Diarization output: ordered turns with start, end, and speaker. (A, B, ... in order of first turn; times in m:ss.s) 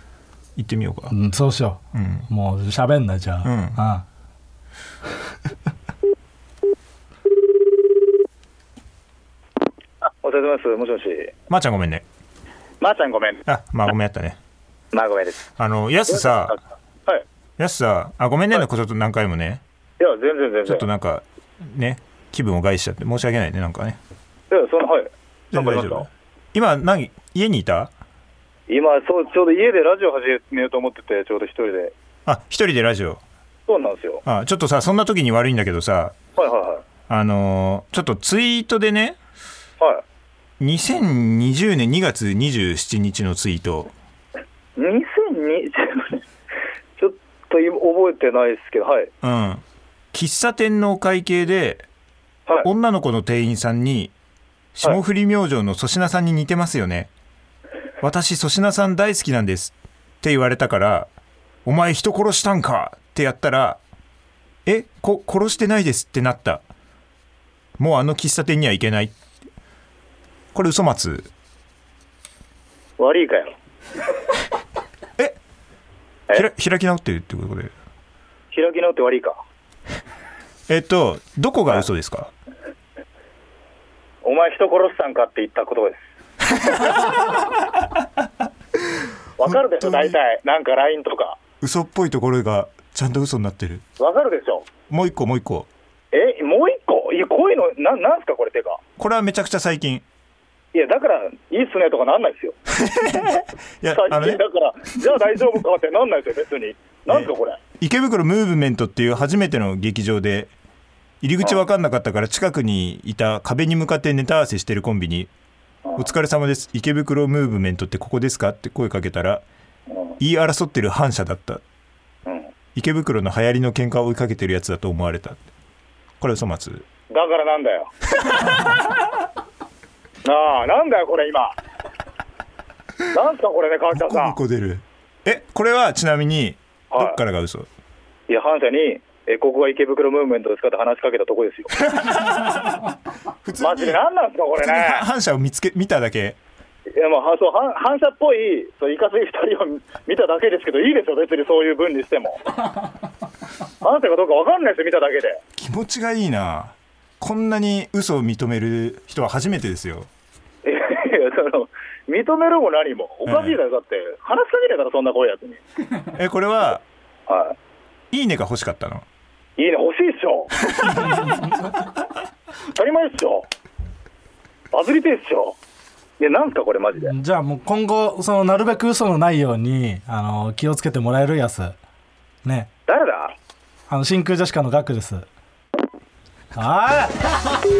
0:00.6-0:01.1 A
0:01.1-0:04.0 B
0:01.9-0:02.3 A
0:03.4-0:03.8 A
0:10.0-0:11.3 C
0:11.5-0:12.0 A
0:12.8-0:13.4 C
0:13.4-0:14.4 A
0:14.9-0:15.5 C
0:15.6-0:16.6 A
0:16.1-0:17.2 C
0:17.6-0:19.6 A
0:20.0-0:20.9 C
0:20.6-0:24.0 A
0:24.5-0:26.1 C
0:25.5-0:27.9 A
0:28.7-0:31.9 C
0:32.2-0:33.2 A
0:33.7-0:34.2 C
0:34.2-0:36.2 A
0:36.4-0:36.8 C
0:37.1-0:39.2 A
0:40.6-0:43.9 A
0:44.8-0:46.2 C
0:47.0-0:49.1 C
0:49.2-0:51.8 A
0:52.6-0:54.1 A
0:54.7-0:57.1 A
0:58.0-1:01.1 A
1:01.6-1:03.8 A
1:04.6-1:06.6 A
1:07.8-1:09.2 A
1:10.5-1:11.3 A
1:13.0-1:13.5 C
1:16.3-1:17.7 A
1:18.5-1:19.4 C
1:20.7-1:22.3 A
1:24.2-1:26.0 C
1:29.4-1:31.4 C
1:29.4-1:30.2 A
1:31.6-1:33.8 A
1:34.0-1:34.7 C
1:34.9-1:35.7 A
1:36.1-1:38.8 C
1:39.0-1:40.0 A
1:40.7-1:42.6 C
1:42.7-1:44.4 A
1:43.9-1:47.6 C
1:47.1-1:50.5 A
1:51.2-1:55.3 A
1:56.0-1:59.4 A
1:59.9-2:00.2 C
2:00.2-2:01.6 A
2:02.2-2:02.5 C
2:02.7-2:05.4 A
2:06.2-2:06.9 A
2:07.1-2:07.9 C
2:10.2-2:11.6 C
2:13.1-2:14.4 C
2:13.9-2:17.7 A
2:16.9-2:17.2 C
2:18.3-2:21.8 C
2:21.9-2:22.7 A
2:23.4-2:24.0 A
2:23.6-2:25.0 C
2:24.6-2:26.4 A
2:27.0-2:32.4 C
2:33.8-2:35.4 C
2:35.6-2:40.1 A
2:40.6-2:45.6 C
2:43.2-2:43.6 A
2:46.1-2:46.8 A
2:47.3-2:47.6 C
2:48.1-2:49.0 A
2:49.6-2:51.5 C
2:52.7-2:53.5 C
2:54.7-2:55.6 C
2:56.2-2:57.1 C
2:57.0-3:01.8 B
3:02.4-3:02.7 B
3:02.9-3:03.3 C
3:03.9-3:05.3 B
3:06.5-3:07.4 B